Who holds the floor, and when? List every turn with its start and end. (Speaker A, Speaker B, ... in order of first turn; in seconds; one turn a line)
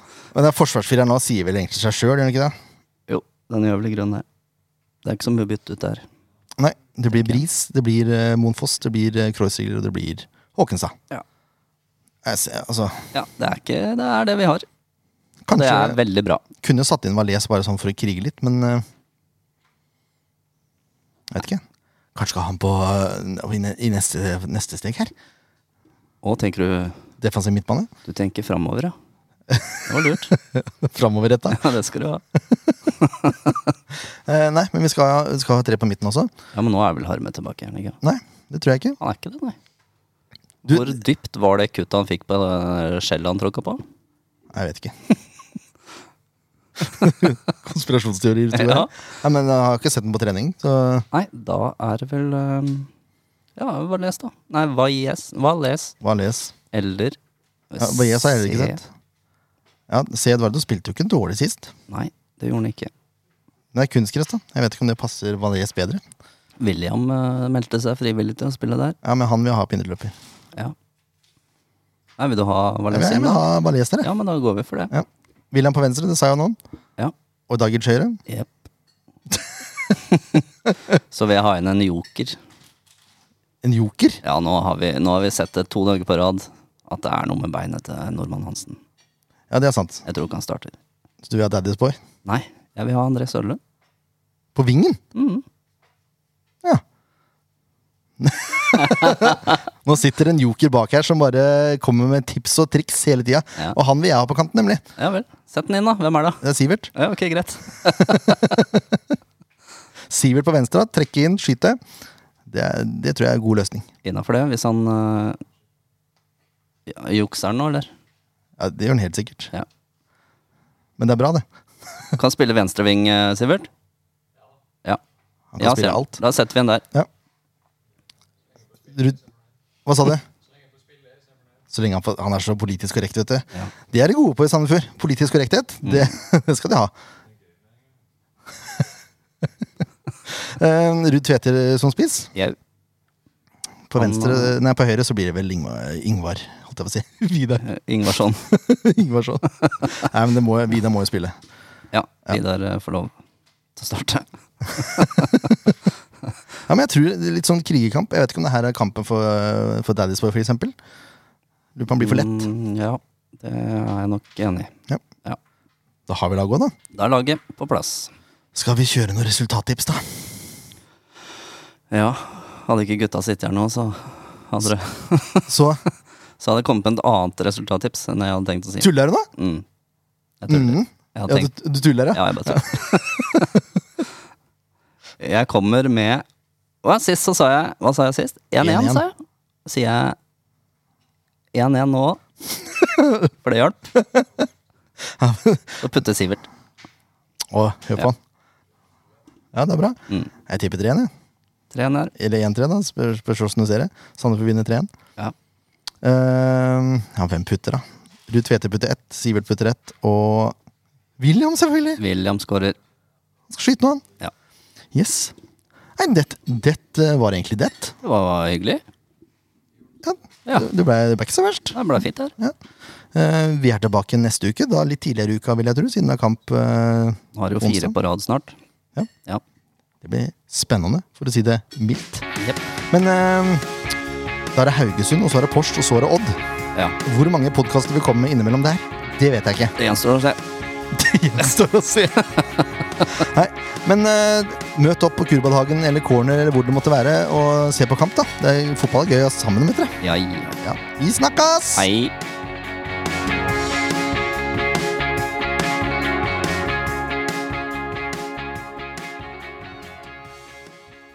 Speaker A: 0.3-2.5
Speaker B: 3.1-4.2
Speaker B: 5.0-6.0
Speaker A: 6.6-10.9
Speaker B: 7.1-7.4
Speaker A: 12.2-13.1
Speaker B: 13.1-14.6
Speaker A: 15.4-16.0
Speaker B: 15.5-16.4
Speaker A: 16.6-18.8
Speaker A: 21.3-21.6
Speaker A: 22.1-25.1
Speaker B: 26.2-27.0
Speaker A: 27.2-27.9
Speaker B: 28.0-28.9
Speaker A: 29.5-31.7
Speaker B: 29.9-30.3
Speaker B: 31.5-32.2
Speaker B: 33.0-33.6
Speaker A: 34.3-36.3
Speaker B: 36.5-38.0
Speaker A: 38.0-39.0
Speaker B: 39.0-39.6
Speaker A: 40.6-40.9
Speaker B: 40.7-43.8
Speaker A: 44.5-44.9
Speaker A: 46.8-51.0
Speaker B: 48.5-48.9
Speaker B: 51.1-52.9
Speaker B: 53.5-55.9
Speaker A: 56.0-56.5
Speaker B: 56.7-57.2
Speaker B: 57.7-58.8
Speaker A: 57.8-58.8
Speaker A: 59.9-61.7
Speaker B: 61.9-62.9
Speaker A: 63.7-66.0
Speaker B: 66.6-69.0
Speaker A: 69.0-70.1
Speaker B: 72.2-73.4
Speaker A: 72.9-74.1
Speaker B: 74.0-74.9
Speaker A: 74.9-76.6
Speaker A: 77.5-78.2
Speaker B: 78.3-78.5
Speaker B: 79.9-80.4
Speaker B: 81.1-82.4
Speaker A: 83.6-84.2
Speaker B: 84.2-88.8
Speaker A: 89.5-90.0
Speaker B: 90.0-90.8
Speaker A: 91.2-92.0
Speaker B: 92.2-93.6
Speaker A: 94.5-95.0
Speaker B: 95.1-95.4
Speaker A: 98.2-104.8
Speaker B: 98.8-99.3
Speaker B: 105.0-106.4
Speaker A: 106.4-106.9
Speaker B: 106.9-108.6
Speaker A: 107.9-109.0
Speaker A: 110.1-111.8
Speaker A: 112.5-113.9
Speaker B: 114.0-115.4
Speaker B: 116.9-117.9
Speaker A: 118.6-119.5
Speaker A: 121.0-121.4
Speaker B: 122.1-123.7
Speaker A: 125.5-126.2
Speaker B: 125.6-126.8
Speaker A: 128.8-129.2
Speaker A: 129.8-130.2
Speaker A: 131.7-136.9
Speaker B: 135.8-136.1
Speaker A: 140.3-142.3
Speaker A: 143.9-147.7
Speaker B: 144.0-144.5
Speaker B: 147.6-148.4
Speaker A: 148.4-151.3
Speaker B: 151.9-153.1
Speaker B: 153.8-155.3
Speaker A: 154.8-155.6
Speaker A: 156.7-160.7
Speaker A: 161.8-162.5
Speaker B: 162.0-164.7
Speaker A: 166.1-166.7
Speaker B: 166.9-168.1
Speaker A: 168.5-170.3
Speaker B: 171.9-175.5
Speaker A: 175.5-175.8
Speaker B: 176.4-179.7
Speaker A: 178.8-179.3
Speaker B: 180.4-181.5
Speaker A: 180.5-183.5
Speaker B: 182.1-183.5
Speaker B: 185.2-186.2
Speaker B: 186.8-189.1
Speaker A: 188.6-189.0
Speaker B: 189.6-190.2
Speaker B: 191.5-192.2
Speaker B: 193.4-193.9
Speaker A: 194.0-194.2
Speaker A: 195.2-195.8
Speaker B: 195.8-196.5
Speaker A: 197.5-198.2
Speaker A: 199.5-201.1
Speaker B: 201.7-202.1
Speaker A: 202.2-204.9
Speaker A: 206.0-210.6
Speaker A: 211.2-212.0
Speaker B: 212.0-212.8
Speaker A: 213.5-214.0
Speaker A: 214.9-215.3
Speaker A: 216.0-217.9
Speaker B: 218.0-218.8
Speaker A: 220.0-221.8
Speaker B: 221.7-222.3
Speaker A: 223.1-227.9
Speaker B: 227.3-228.5
Speaker A: 230.0-232.2
Speaker A: 232.9-233.7
Speaker A: 234.5-236.4
Speaker A: 237.0-239.7
Speaker B: 239.8-240.4
Speaker A: 240.9-242.4
Speaker A: 243.0-249.9
Speaker B: 250.0-250.6
Speaker A: 250.6-251.9
Speaker B: 251.8-252.1